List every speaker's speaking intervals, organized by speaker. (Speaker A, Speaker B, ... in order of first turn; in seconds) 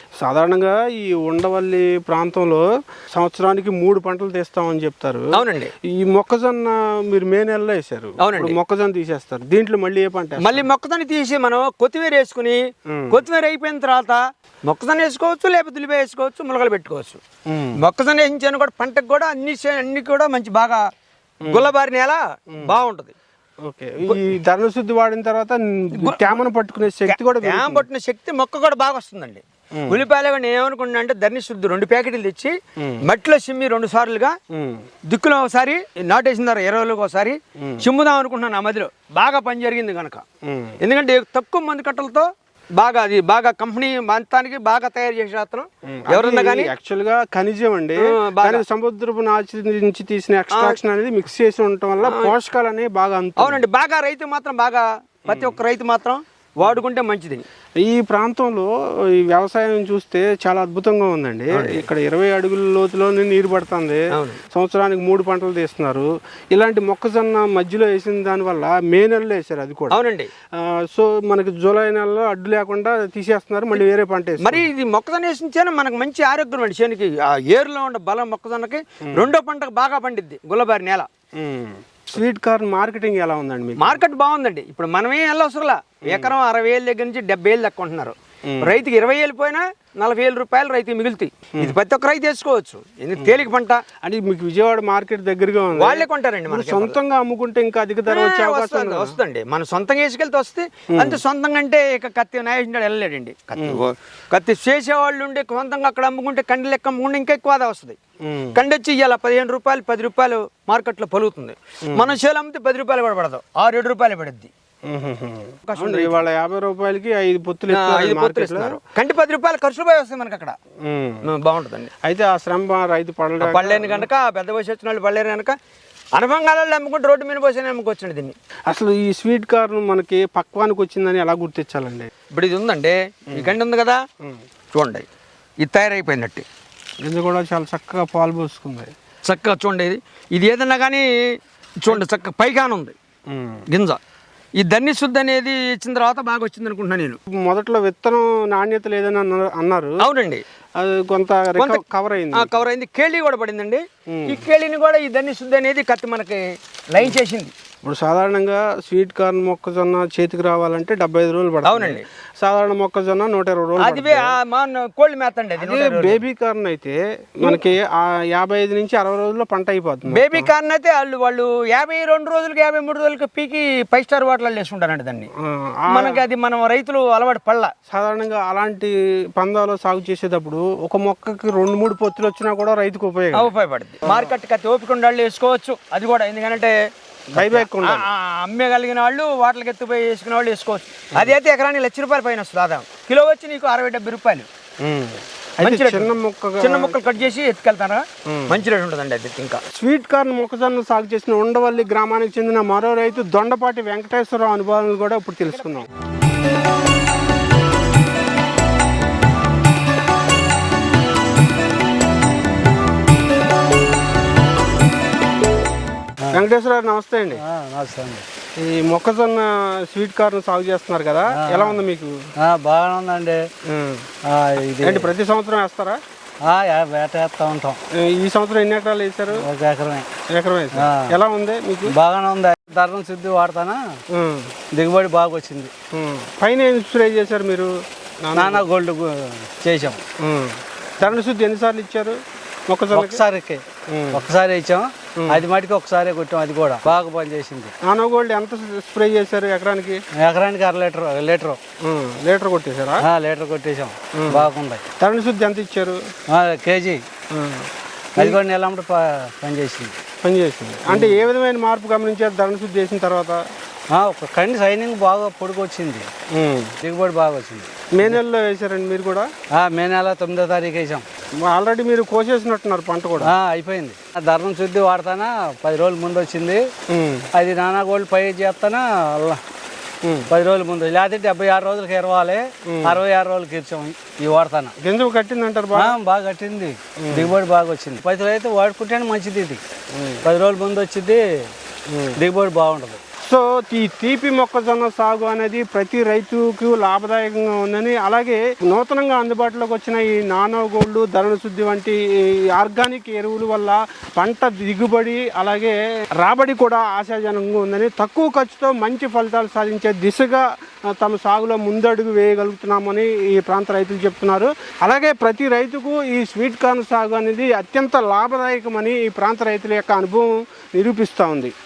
Speaker A: 0.2-5.4, 5.9-10.7, 12.9-13.2, 17.5-17.8, 23.6-27.9, 29.8-30.0, 34.5-34.8, 37.6-37.9, 40.4-40.8, 45.9-53.6, 55.3-55.5, 57.8-58.7, 59.2-64.0, 64.5-70.0, 70.9-74.7, 81.4-84.0, 86.0-86.3, 88.5-88.8, 94.0-99.1, 100.9-101.2, 103.5-103.8, 108.2-108.6, 114.9-118.8, 120.9-121.2, 122.0-124.1, 128.7-132.1, 137.0-138.9, 143.3-143.6, 147.3-150.0, 150.8-152.6, 154.1-154.4, 157.8-164.3, 165.6-170.5, 175.4-176.2, 177.9-183.5, 184.0-184.3, 187.3-188.1, 194.8-196.9, 198.3-198.6, 199.7-205.9, 216.3-217.4, 218.6-222.2, 223.7-224.1, 224.8-226.0, 228.0-229.4, 230.3-231.9, 234.1-234.5, 235.9-237.7, 238.2-238.6, 240.2-242.2, 242.7-243.2, 243.9-244.2, 247.8-250.0, 251.8-253.0, 254.1-254.5, 255.0-256.0, 257.3-258.4, 260.2-263.4, 266.3-266.7, 267.9-269.3, 271.4-273.3, 276.9-277.3, 280.0-280.3, 282.7-283.0, 284.8-285.9, 287.0-287.3, 289.9-290.2, 291.9-292.2, 293.2-302.0, 302.5-310.4, 311.0-321.5
Speaker B: 5.3-5.7, 8.2-8.6, 10.4-12.6, 13.1-17.2, 17.8-20.8, 21.5-23.1, 26.0-26.4, 27.1-32.5, 33.0-34.3, 35.1-40.2, 40.8-46.7, 48.1-48.6, 52.0-52.3, 53.4-57.4, 61.5-61.9, 64.2-64.4, 69.9-70.3, 74.4-81.1, 83.8-93.8, 95.8-97.0, 98.1-108.0, 108.5-114.5, 115.7-116.2, 117.7-120.6, 121.3-121.9, 123.4-125.5, 126.2-128.3, 132.3-134.0, 134.7-135.1, 135.6-136.4, 139.2-141.1, 141.8-142.9, 143.7-144.0, 144.6-147.2, 150.0-150.4, 152.3-157.5, 161.6-162.0, 163.8-166.2, 170.1-175.3, 175.9-177.7, 183.3-186.7, 187.4-194.5, 195.6-199.6
Speaker C: 217.4-218.2, 221.3-221.8, 222.4-223.4, 224.2-225.1, 226.4-227.8, 229.4-230.1, 230.8-231.1, 231.9-233.8, 234.7-235.7, 238.3-240.0, 242.9-247.7, 250.2-251.6, 253.0-254.8, 256.3-257.0, 258.2-259.9, 260.9-261.3, 263.9-266.1, 266.8-268.2, 269.6-271.1, 273.2-276.6, 277.3-279.4, 280.3-284.7, 285.8-289.6, 290.2-291.5, 292.2-293.0